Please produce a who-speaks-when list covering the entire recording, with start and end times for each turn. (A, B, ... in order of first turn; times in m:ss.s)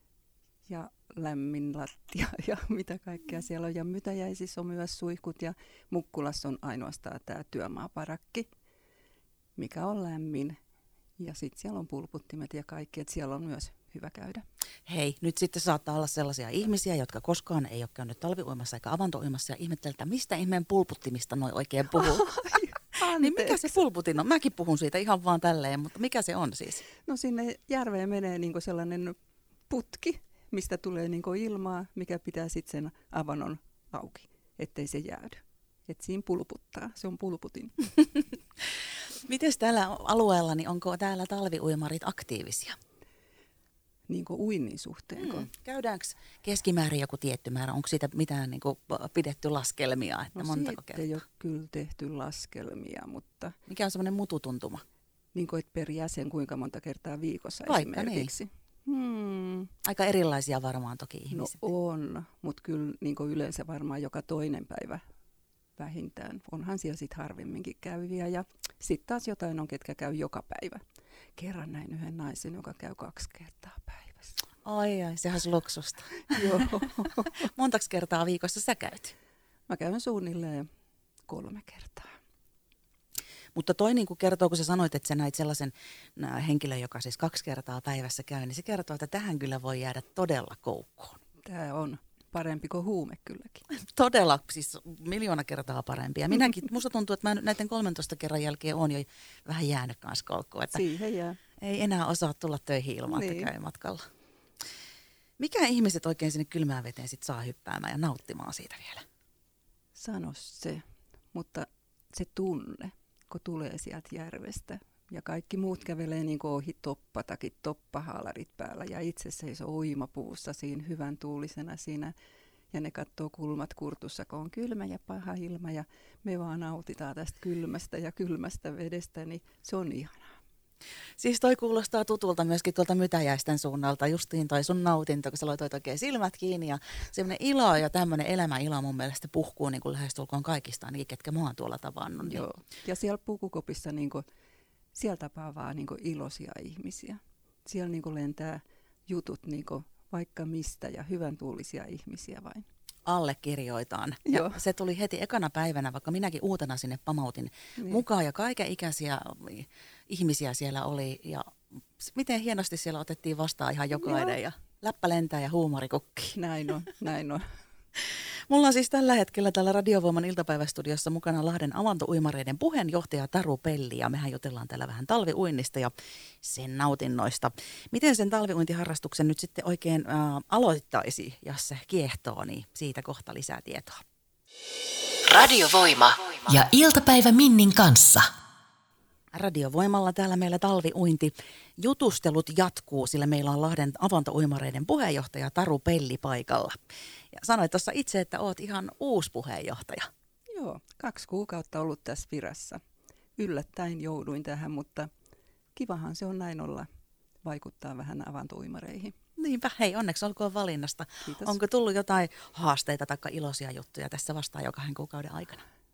0:00.7-0:08.5 A
0:09.6-0:10.6 A
0:11.2-0:14.4 A
0:14.9-0:22.4 B
0:22.0-0:23.8 A
0:23.1-0:26.8 B
0:27.0-0:29.2 A
0:29.7-0:37.7 A
0:39.2-0:42.8 B
0:44.1-0:45.5 A
0:45.2-0:51.1 B
0:50.4-0:53.6 A
0:53.7-0:54.8 B
0:55.3-0:59.7 A
0:57.7-0:58.3 B
0:59.8-1:01.6 B
1:01.3-1:05.0 A
1:05.8-1:10.8 A
1:11.4-1:14.4 A
1:14.6-1:16.5 B
1:16.3-1:17.3 A
1:17.4-1:19.1 B
1:19.7-1:20.7 A
1:21.3-1:22.1 A
1:23.6-1:31.2 B
1:31.4-1:33.6 A
1:33.8-1:40.8 B
1:40.7-1:41.4 A
1:41.6-1:44.0 B
1:43.1-1:43.5 A
1:45.4-1:49.0 B
1:50.0-2:02.1 A
2:02.7-2:10.4 A
2:11.2-2:22.4 B
2:22.2-2:24.2 A
2:25.0-2:32.6 A
2:33.1-2:46.4 B
2:34.3-2:34.6 A
2:37.8-2:38.0 A
2:46.4-2:47.4 A
2:48.5-3:04.0 B
3:05.3-3:08.3 C
3:09.3-3:16.8 B
3:17.3-3:20.1 B
3:20.5-3:22.8 A
3:23.4-3:25.1 A
3:25.8-3:26.9 A
3:27.4-3:29.1 A
3:29.4-3:35.6 B
3:31.2-3:31.6 A